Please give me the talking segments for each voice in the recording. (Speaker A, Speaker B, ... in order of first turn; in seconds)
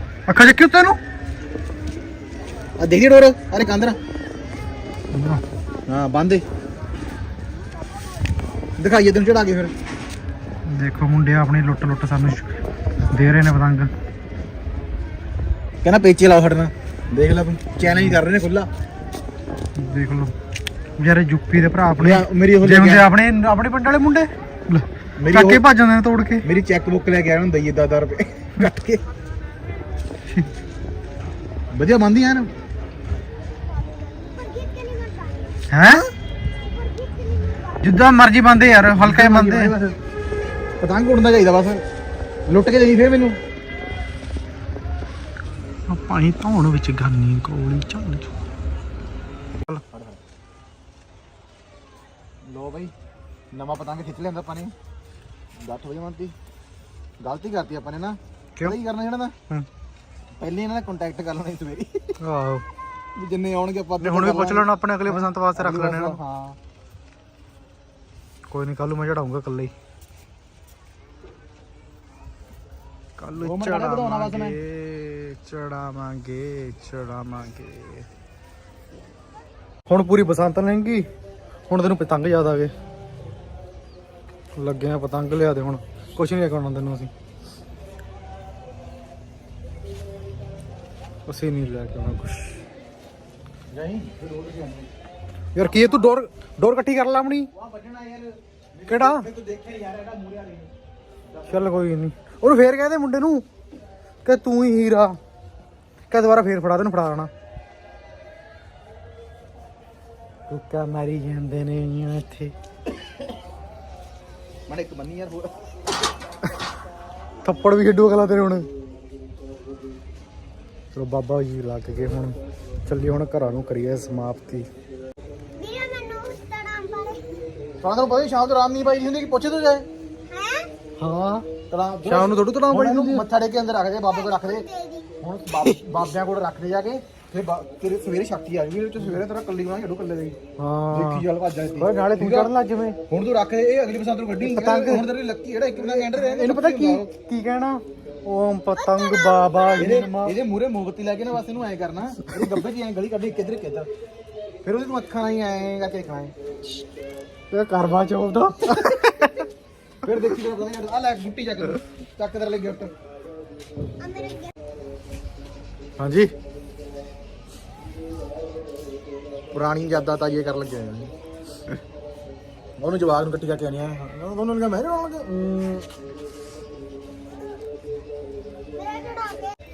Speaker A: 0.3-1.0, 5.1-5.4, 10.7-12.5, 13.1-13.9, 17.9-18.2, 19.8-20.3, 21.0-26.4, 35.7-36.0, 37.8-39.7, 45.9-48.3, 62.2-62.6, 64.0-66.2, 68.5-69.7, 73.2-78.0, 79.9-81.0, 81.7-82.7, 84.5-87.1, 91.3-92.6, 95.5-97.5, 98.9-99.2, 101.5-103.4, 104.2-105.2, 106.1-107.3, 110.5-112.5, 117.4-118.7, 120.9-124.7, 131.0-131.5, 132.0-133.2, 140.6-141.2, 141.8-143.0, 144.4-145.1, 145.8-150.4, 157.5-159.4, 166.0-166.3
Speaker B: 2.8-4.0, 5.9-6.4, 8.8-9.7, 15.8-18.7, 22.0-23.0, 25.2-25.6, 26.4-29.0, 31.7-32.5, 39.0-40.0, 40.8-41.8, 42.5-43.4, 49.9-50.2, 52.4-52.9, 53.5-54.7, 55.6-56.3, 57.2-59.3, 60.4-62.1, 63.1-66.6, 73.4-74.5, 93.7-94.9, 95.6-96.1, 97.5-100.7, 101.3-101.7, 114.7-115.5, 127.8-129.8, 131.7-134.6, 135.2-140.3, 140.9-142.5, 143.1-147.0, 149.8-153.9, 154.6-156.3, 160.0-162.9, 169.5-171.1, 172.8-175.8
Speaker C: 34.1-35.6, 36.8-37.8, 125.6-127.2, 130.3-130.7, 134.1-135.1, 148.9-149.7, 164.0-164.5, 178.8-179.5